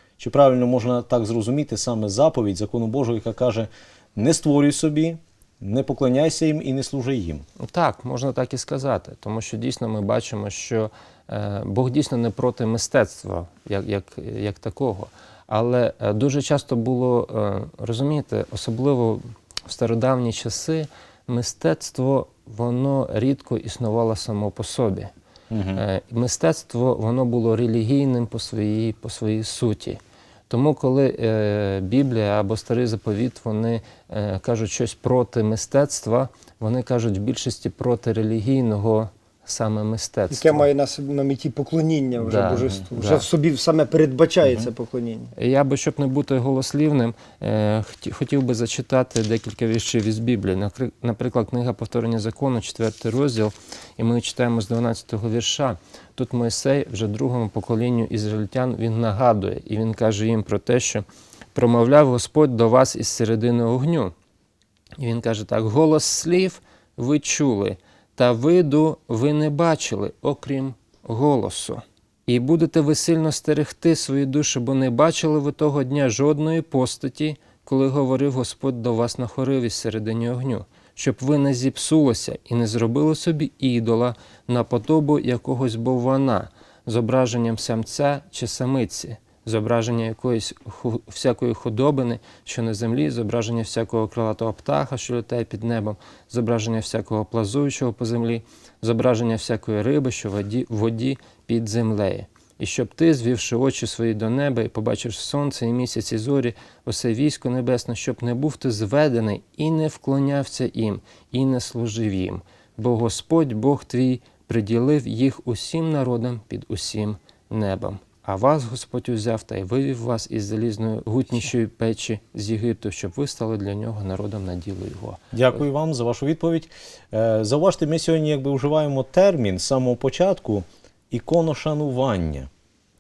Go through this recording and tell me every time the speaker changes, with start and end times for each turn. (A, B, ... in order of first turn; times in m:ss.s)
0:00.2-0:07.4 A
0:07.6-0:25.1 B
0:25.5-0:25.8 A
0:25.8-0:40.7 B
0:40.3-0:45.3 C
0:42.2-0:43.3 B
0:45.4-1:04.1 B
1:05.0-2:05.6 B
2:05.3-2:12.5 A